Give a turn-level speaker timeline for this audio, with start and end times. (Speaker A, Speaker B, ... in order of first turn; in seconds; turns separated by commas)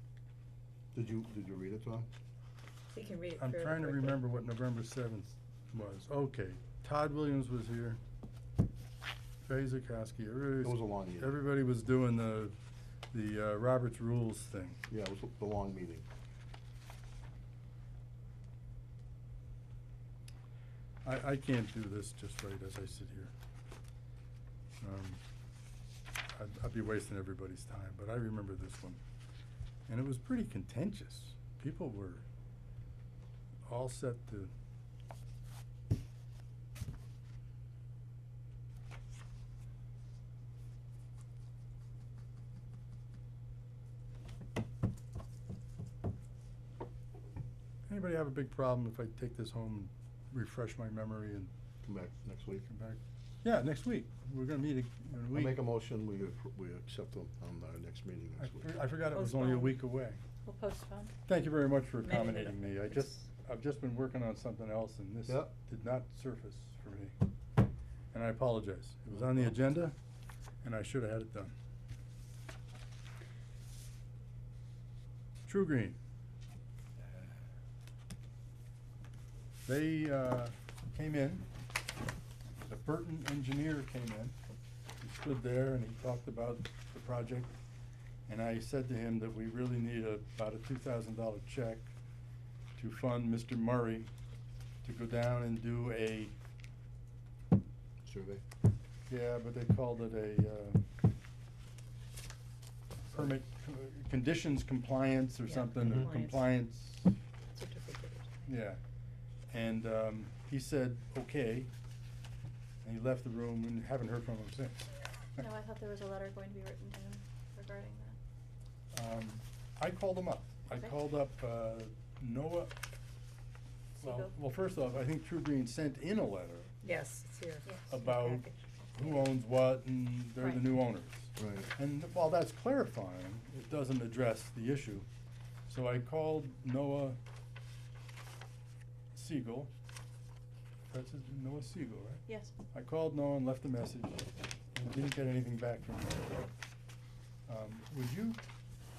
Speaker A: 0.9-2.1, Speaker B: 2.9-4.2, Speaker C: 3.4-8.0, Speaker C: 9.4-12.6, Speaker A: 10.6-11.4, Speaker C: 13.1-14.8, Speaker A: 14.9-16.1, Speaker C: 21.0-23.3, Speaker C: 24.8-25.2, Speaker C: 26.3-29.0, Speaker C: 29.9-32.2, Speaker C: 33.7-34.5, Speaker C: 47.9-51.5, Speaker A: 51.8-52.7, Speaker C: 52.7-55.6, Speaker A: 55.3-58.7, Speaker C: 58.4-60.2, Speaker B: 59.1-59.8, Speaker D: 60.5-61.1, Speaker C: 61.3-67.1, Speaker B: 62.0-63.2, Speaker C: 68.1-69.9, Speaker C: 70.6-71.5, Speaker C: 75.4-76.0, Speaker C: 79.6-81.5, Speaker C: 82.7-84.3, Speaker C: 85.0-87.5, Speaker C: 88.3-91.9, Speaker C: 92.8-94.1, Speaker C: 94.8-96.3, Speaker A: 98.0-98.4, Speaker C: 99.1-100.8, Speaker C: 103.1-107.1, Speaker B: 105.5-106.4, Speaker B: 107.5-108.5, Speaker C: 108.5-108.8, Speaker C: 109.5-111.7, Speaker C: 112.8-114.9, Speaker D: 115.3-118.2, Speaker C: 118.9-122.7, Speaker D: 124.0-124.3, Speaker C: 124.0-126.7, Speaker B: 126.8-127.6, Speaker D: 127.7-128.4, Speaker C: 127.9-135.1, Speaker B: 128.5-129.2, Speaker A: 131.3-131.7, Speaker C: 135.7-137.2, Speaker C: 139.1-139.7, Speaker C: 140.9-146.5, Speaker D: 142.3-142.5, Speaker C: 147.5-148.4